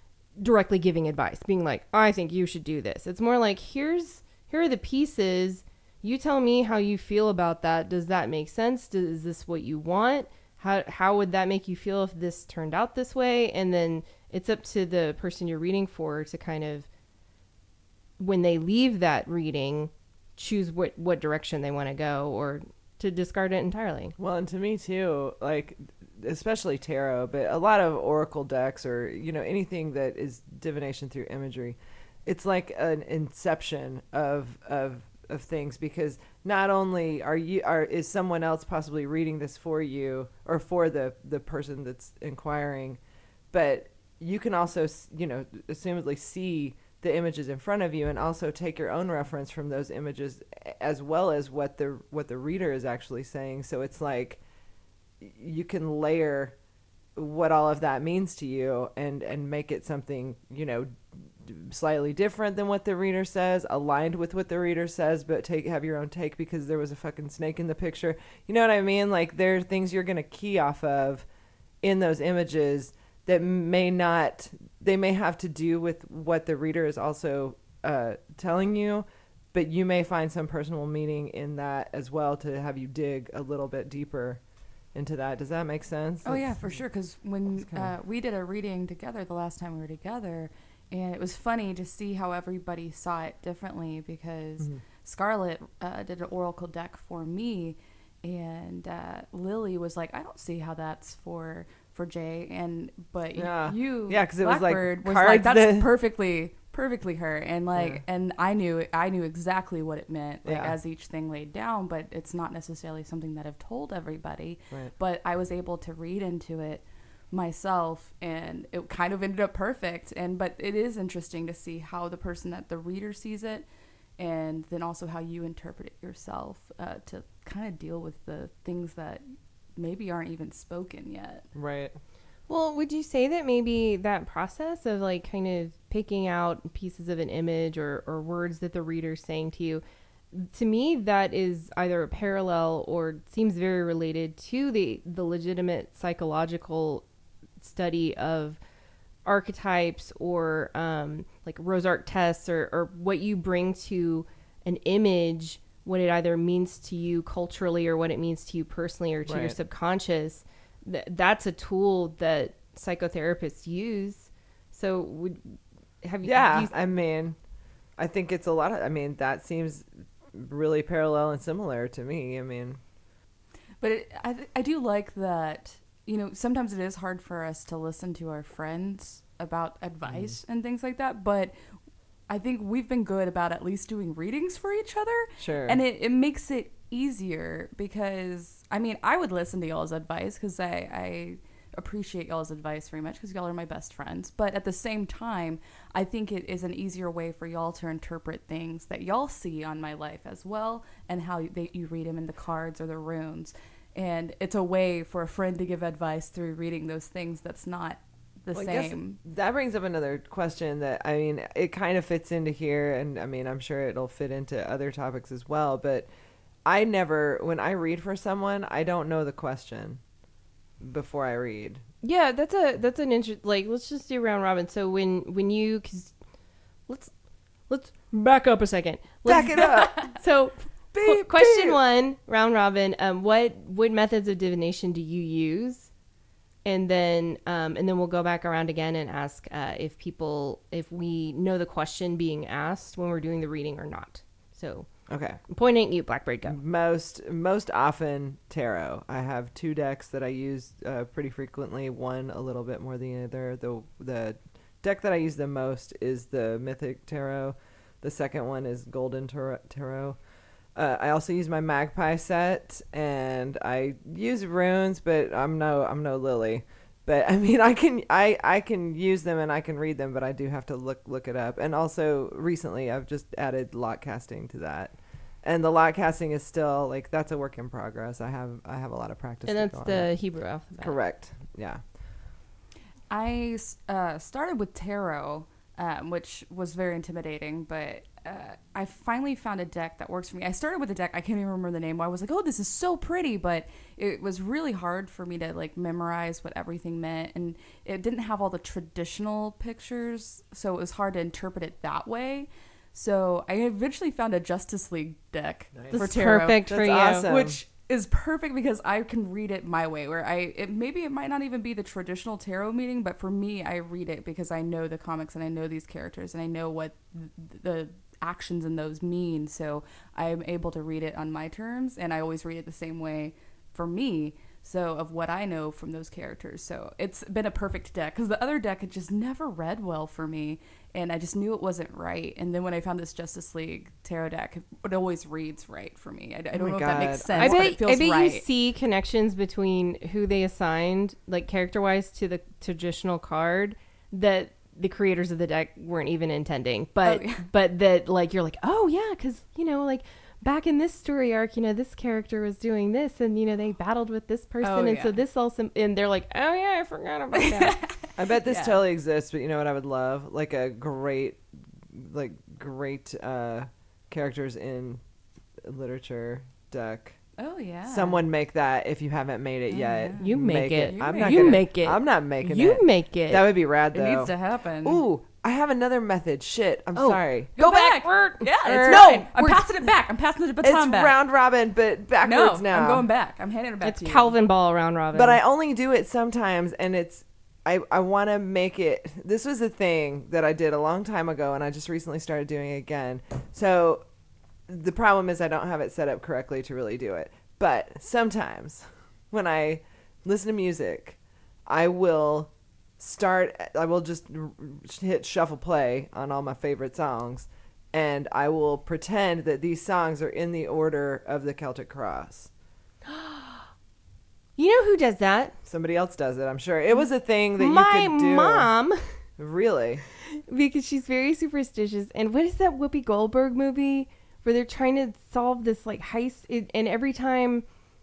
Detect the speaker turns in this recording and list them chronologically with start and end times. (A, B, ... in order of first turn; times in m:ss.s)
0:00.4-0:16.9 A
0:18.2-0:24.1 A
0:24.2-0:43.0 B
0:43.5-0:54.4 B
0:55.2-0:56.6 B
0:57.2-1:11.2 B
1:11.8-1:24.4 B
1:24.9-1:26.8 B
1:26.2-2:03.6 C
1:27.6-1:27.9 B
1:43.4-1:45.9 B
1:47.7-1:48.0 B
1:50.4-1:50.8 B
2:04.2-2:11.5 C
2:11.5-2:12.0 B
2:12.5-2:27.0 A
2:27.6-2:28.6 A
2:29.2-2:46.7 A
2:39.2-2:39.6 B
2:46.2-2:47.4 B
2:48.0-2:52.8 B
2:53.8-3:01.5 C
3:00.1-3:00.4 B
3:02.3-3:29.2 C
3:05.4-3:05.8 B
3:28.5-3:36.1 B
3:36.6-3:40.0 B
3:40.8-3:41.8 B
3:42.0-3:46.2 A
3:46.9-3:55.9 A
3:49.2-3:50.0 B
3:50.9-3:51.8 B
3:56.6-4:04.9 A
4:05.1-4:05.4 B
4:05.5-4:06.6 A
4:06.4-4:20.2 B
4:20.7-4:40.1 B
4:39.4-4:41.0 A
4:40.8-4:41.8 B
4:43.1-5:38.4 C
5:05.7-5:06.0 B
5:05.9-5:07.2 A
5:06.6-5:07.6 B
5:36.5-5:37.7 B
5:37.4-5:57.8 A
5:47.0-5:47.4 C
5:54.6-5:55.2 C
5:57.4-5:58.8 C
5:58.2-6:05.0 B
6:05.6-6:07.2 B
6:07.4-6:08.2 C
6:07.9-6:14.3 B
6:09.7-6:11.6 C
6:10.2-6:13.5 A
6:13.9-6:15.0 C
6:14.8-6:17.6 B
6:16.9-6:19.6 A
6:17.6-6:21.1 C
6:18.6-6:19.3 B
6:20.6-6:23.0 B
6:22.2-6:24.3 C
6:23.8-6:25.4 A
6:25.1-6:34.0 B
6:34.7-6:52.5 B
6:53.0-6:53.7 A
6:54.6-6:55.5 A
6:55.6-6:58.7 B
6:57.6-6:59.0 A
6:59.4-7:00.0 B
7:00.3-7:07.6 A